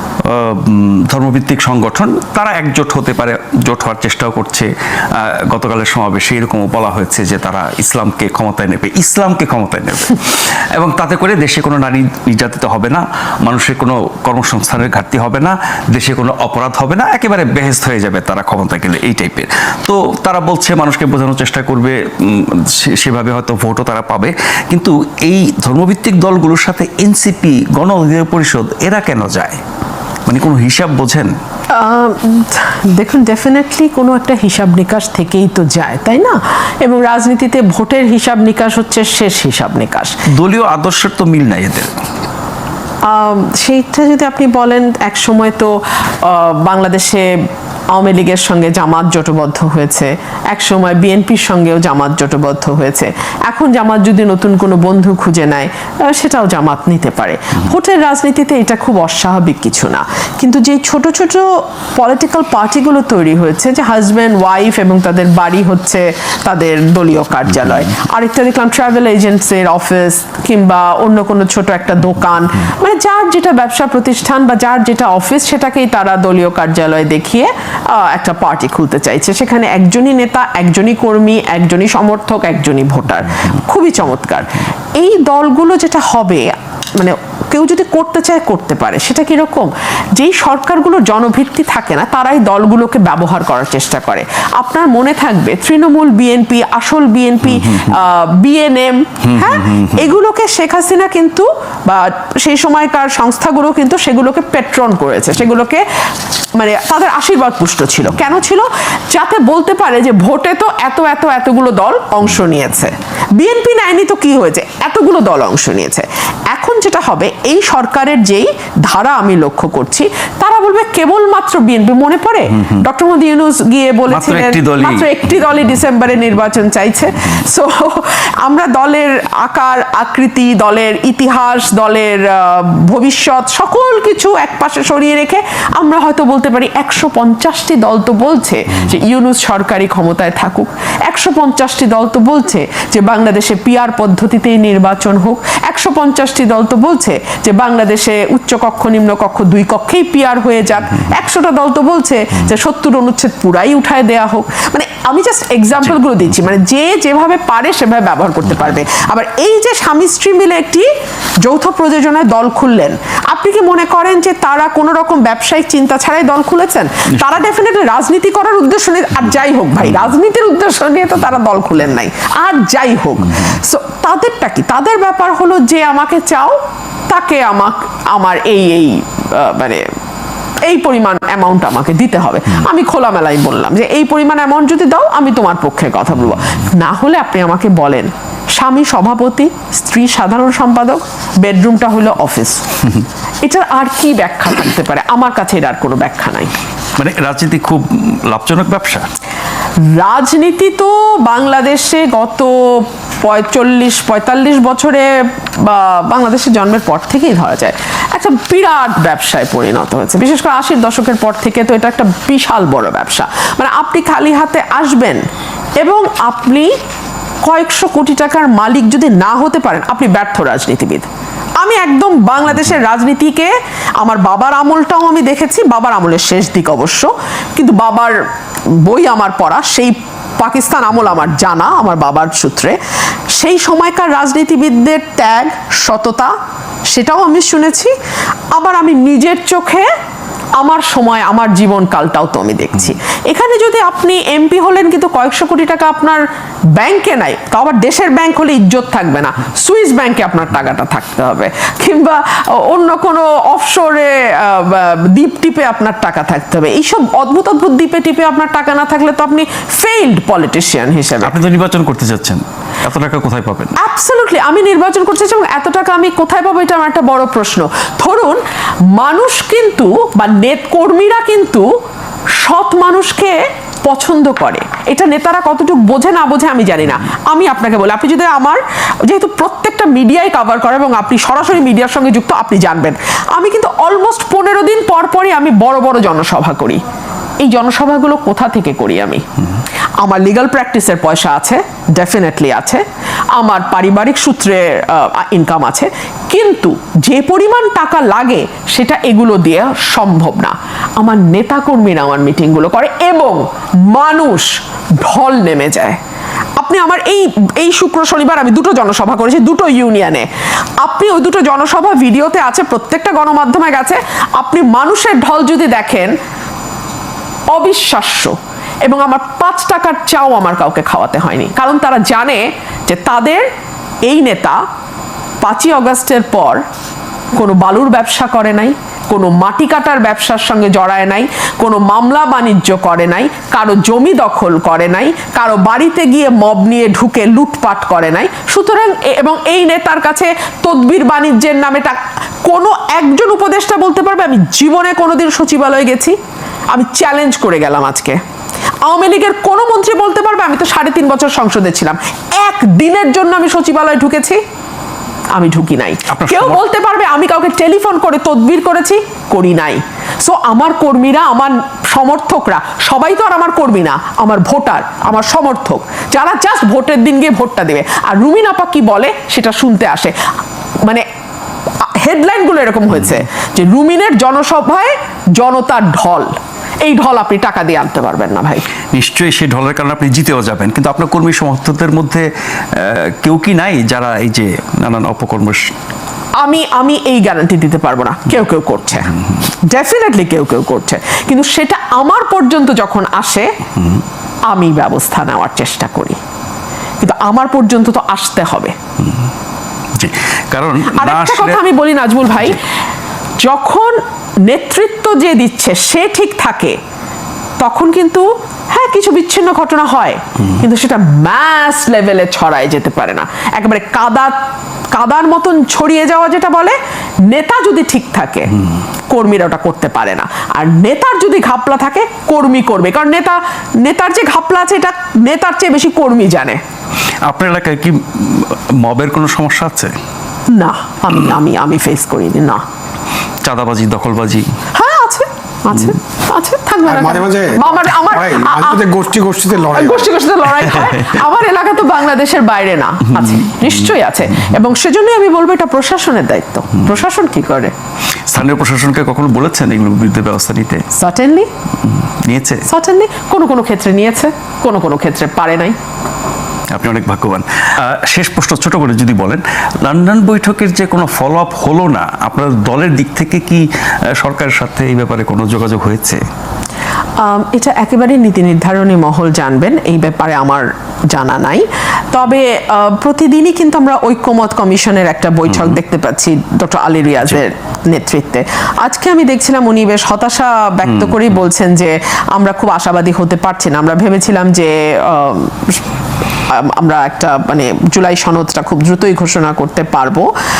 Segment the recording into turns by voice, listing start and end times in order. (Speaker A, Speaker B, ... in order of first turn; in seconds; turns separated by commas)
Speaker A: 0.2-29.6, Speaker A: 30.2-31.3, Speaker B: 31.7-40.2, Speaker A: 40.3-41.9, Speaker B: 43.1-47.3, Speaker B: 47.9-105.8, Speaker A: 97.5-98.0, Speaker A: 99.2-100.1, Speaker B: 106.5-160.9, Speaker A: 124.1-125.1, Speaker B: 161.4-176.6, Speaker B: 177.1-179.8, Speaker B: 180.6-192.8, Speaker B: 193.4-196.5, Speaker A: 197.0-199.1, Speaker B: 199.8-215.2, Speaker B: 215.8-216.7, Speaker B: 217.4-221.1, Speaker B: 221.6-228.2, Speaker B: 228.8-232.8, Speaker B: 233.3-236.3, Speaker B: 236.9-237.9, Speaker B: 238.5-239.9, Speaker B: 240.6-246.2, Speaker B: 246.7-261.4, Speaker A: 261.2-263.8, Speaker B: 263.8-268.4, Speaker B: 268.9-271.7, Speaker B: 272.4-286.8, Speaker B: 287.4-289.2, Speaker B: 290.0-292.8, Speaker B: 293.3-306.0, Speaker B: 306.6-310.3, Speaker B: 310.8-316.1, Speaker B: 317.5-323.4, Speaker B: 324.1-324.6, Speaker B: 325.4-326.6, Speaker B: 327.3-346.1, Speaker B: 346.7-348.2, Speaker B: 348.9-354.4, Speaker B: 355.3-370.1, Speaker A: 356.1-356.6, Speaker B: 371.8-378.6, Speaker A: 378.9-385.7, Speaker B: 386.4-389.1, Speaker B: 389.7-393.5, Speaker B: 394.5-396.2, Speaker B: 397.0-398.7, Speaker A: 399.0-399.3, Speaker A: 399.9-401.6, Speaker B: 400.9-402.6, Speaker B: 403.4-406.8, Speaker B: 407.6-414.4, Speaker B: 414.9-418.5, Speaker B: 419.1-426.6, Speaker A: 427.2-429.9, Speaker B: 430.5-432.6, Speaker A: 433.4-434.5, Speaker B: 434.7-438.9, Speaker C: 436.9-440.1, Speaker B: 439.7-447.7, Speaker A: 448.3-450.8, Speaker B: 450.9-451.5, Speaker A: 452.1-452.6, Speaker B: 452.7-455.8, Speaker A: 456.7-466.2, Speaker B: 467.2-485.8, Speaker A: 480.9-481.2, Speaker B: 486.5-490.3